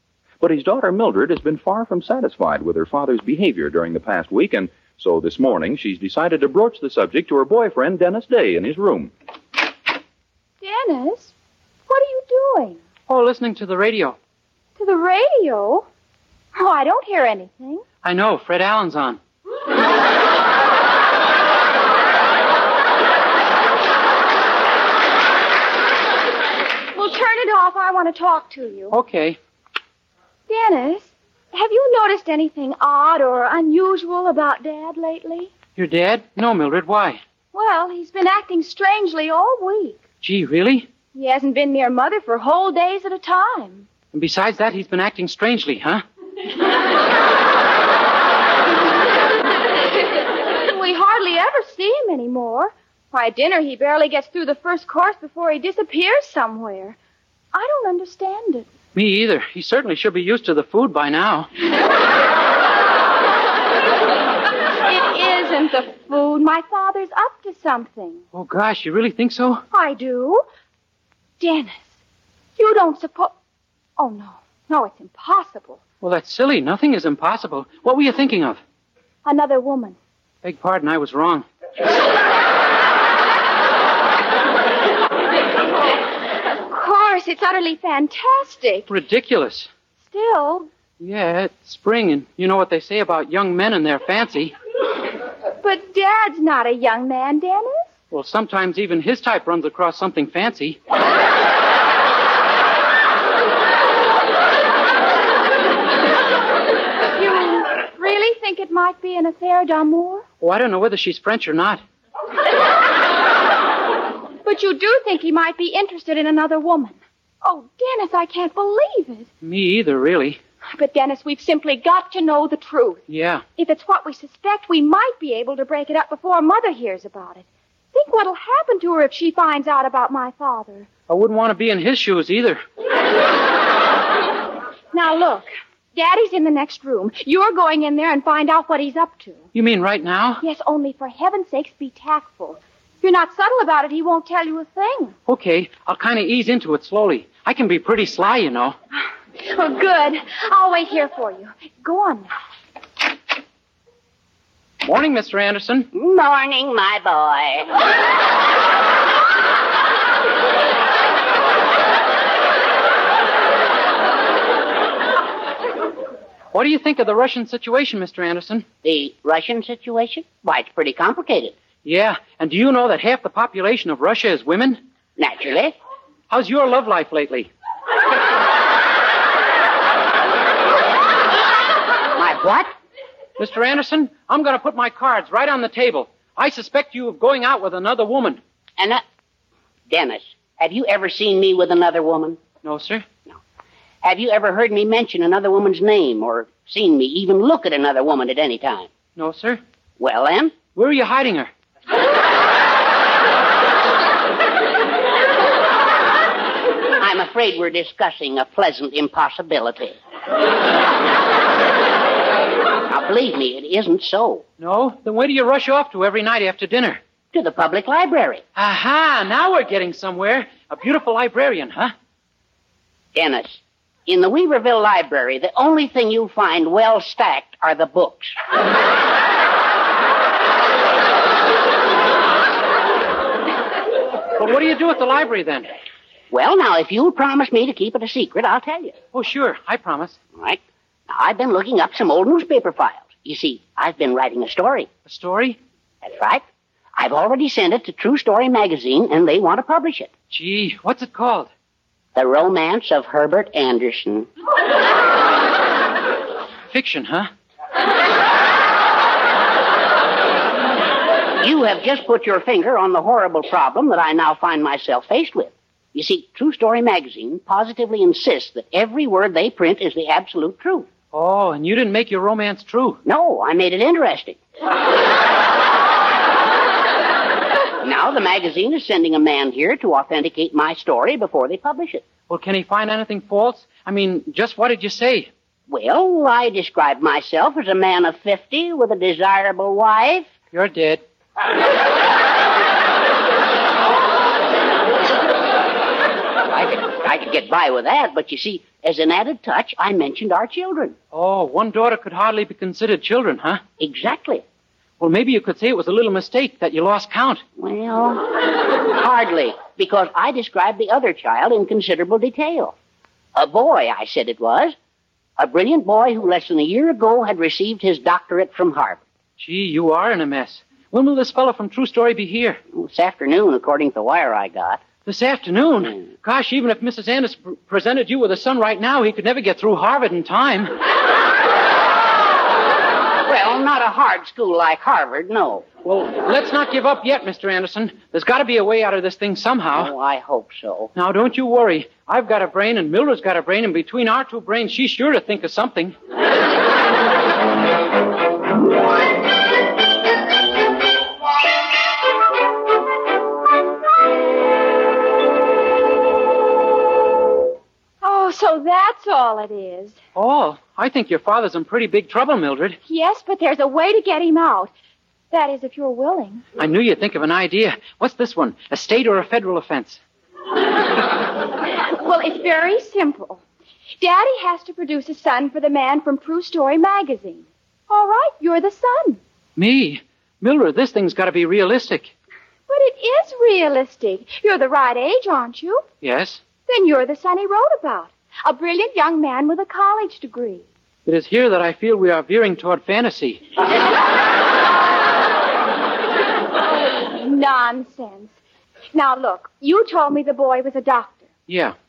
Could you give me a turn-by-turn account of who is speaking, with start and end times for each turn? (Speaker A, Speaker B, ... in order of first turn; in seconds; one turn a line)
Speaker A: 0.4-9.1
Speaker B: 10.6-11.3
Speaker B: 11.9-12.8
Speaker C: 13.1-14.2
Speaker B: 14.8-15.9
Speaker B: 16.5-17.8
Speaker C: 18.0-19.2
Speaker B: 26.9-28.9
Speaker C: 28.9-29.4
Speaker B: 30.5-35.5
Speaker C: 35.7-37.2
Speaker B: 37.5-40.0
Speaker C: 40.2-40.9
Speaker B: 41.1-43.9
Speaker C: 44.1-46.0
Speaker B: 50.6-57.0
Speaker B: 57.5-58.6
Speaker C: 58.9-61.5
Speaker B: 64.8-68.2
Speaker C: 68.3-69.6
Speaker B: 69.7-70.4
Speaker B: 71.4-71.8
Speaker B: 72.6-73.3
Speaker B: 74.0-75.8
Speaker C: 76.0-78.6
Speaker B: 79.2-80.0
Speaker C: 80.4-81.5
Speaker B: 86.7-88.9
Speaker C: 88.9-89.7
Speaker B: 90.1-90.7
Speaker C: 91.0-94.5
Speaker B: 95.6-97.9
Speaker C: 98.1-100.8
Speaker B: 107.1-110.2
Speaker C: 110.4-111.8
Speaker B: 114.4-119.3
Speaker C: 119.4-120.4
Speaker B: 120.7-123.0
Speaker C: 123.1-123.4
Speaker B: 123.6-130.9
Speaker C: 131.1-132.6
Speaker B: 134.9-139.4
Speaker C: 139.5-140.4
Speaker B: 140.4-145.2
Speaker C: 145.3-148.8
Speaker B: 149.4-152.3
Speaker C: 154.8-155.9
Speaker D: 155.9-157.7
Speaker C: 166.5-168.7
Speaker D: 168.8-171.5
Speaker C: 171.8-174.8
Speaker D: 175.2-175.8
Speaker C: 176.3-177.5
Speaker D: 182.1-182.7
Speaker C: 183.4-188.4
Speaker D: 188.8-189.0
Speaker D: 189.9-192.4
Speaker C: 192.6-193.0
Speaker D: 194.0-198.9
Speaker C: 199.2-199.6
Speaker D: 200.0-200.7
Speaker C: 200.6-201.5
Speaker D: 207.0-209.9
Speaker D: 212.9-214.4
Speaker C: 214.6-217.0
Speaker D: 217.3-218.4
Speaker C: 218.6-221.9
Speaker D: 223.1-228.3
Speaker C: 234.4-235.7
Speaker D: 236.3-239.0
Speaker C: 239.1-240.2
Speaker D: 240.3-244.9
Speaker C: 245.1-245.6
Speaker D: 246.0-246.4
Speaker D: 246.9-250.1
Speaker C: 250.3-251.5
Speaker D: 252.1-254.3
Speaker C: 256.7-257.3
Speaker D: 261.4-270.9
Speaker C: 271.1-273.0
Speaker D: 273.0-274.4
Speaker D: 277.8-282.1
Speaker C: 282.3-285.3
Speaker D: 285.7-290.3
Speaker C: 290.5-291.0
Speaker D: 296.5-300.9
Speaker C: 301.1-303.6
Speaker D: 303.8-304.4
Speaker C: 305.0-307.4
Speaker D: 307.6-312.7
Speaker D: 313.3-314.8
Speaker D: 315.4-319.0
Speaker C: 319.4-322.6
Speaker D: 322.7-324.9
Speaker C: 325.0-330.7
Speaker D: 333.2-335.7
Speaker C: 335.8-339.9
Speaker D: 339.7-340.9
Speaker C: 340.9-345.9
Speaker B: 358.0-360.0
Speaker C: 360.1-362.8
Speaker B: 362.9-364.7
Speaker B: 365.3-366.4
Speaker C: 366.6-370.0
Speaker B: 371.9-373.4
Speaker B: 374.0-379.2
Speaker C: 379.6-382.1
Speaker B: 382.7-385.8
Speaker C: 386.0-386.4
Speaker B: 386.7-390.6
Speaker C: 391.1-393.4
Speaker B: 396.9-398.4
Speaker B: 398.9-401.2
Speaker C: 401.5-401.8